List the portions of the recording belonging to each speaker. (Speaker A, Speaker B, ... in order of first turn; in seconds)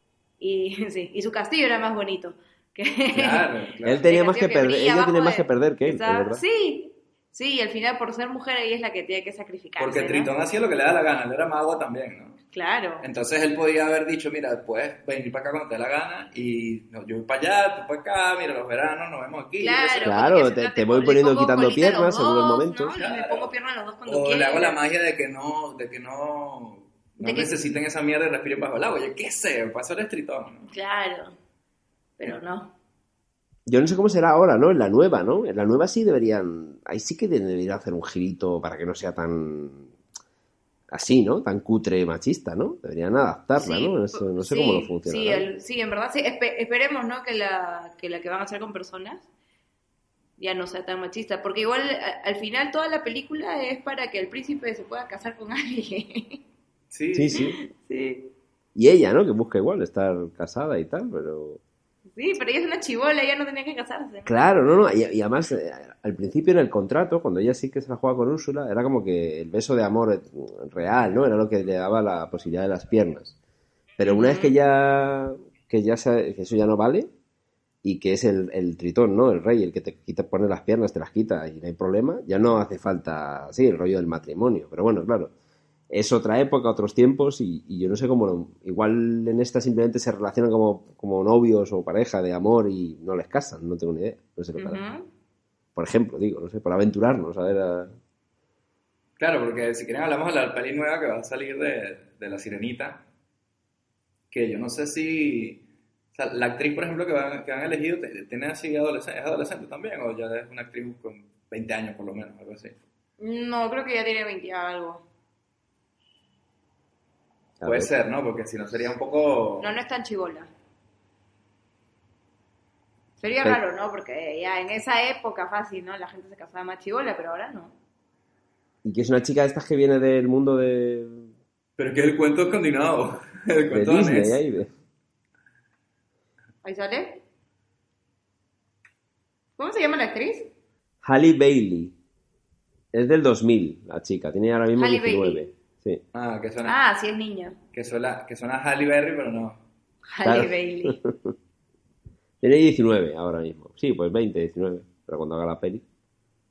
Speaker A: 0.4-3.5, 4.0-10.3, 12.5-13.1, 19.6-24.8, 27.2-27.5, 30.7-31.4, 32.2-32.7, 43.5-49.2, 50.4-56.4, 57.3-58.3, 62.1-64.4, 74.0-74.5, 94.6-95.1, 113.2-115.0, 119.6-120.5, 123.2-127.7, 136.6-137.2, 139.6-140.5, 144.8-145.5, 146.7-147.6, 150.1-151.0
Speaker B: 3.1-4.0, 9.8-12.4, 13.0-20.1, 23.0-23.5, 24.1-30.7, 56.9-57.4, 99.2-103.0, 104.3-105.6, 106.1-112.8, 117.6-119.7, 131.8-134.4, 146.1-146.8, 147.7-149.6
Speaker C: 3.8-6.4, 20.0-22.9, 33.6-39.9, 40.9-45.4, 57.1-57.6, 58.7-61.6, 64.2-73.3, 74.0-77.1, 77.8-85.3, 85.9-94.8, 95.7-97.9, 117.6-117.9, 128.8-131.2, 133.7-134.7, 141.0-141.9, 142.9-146.0, 150.2-151.3, 152.4-155.8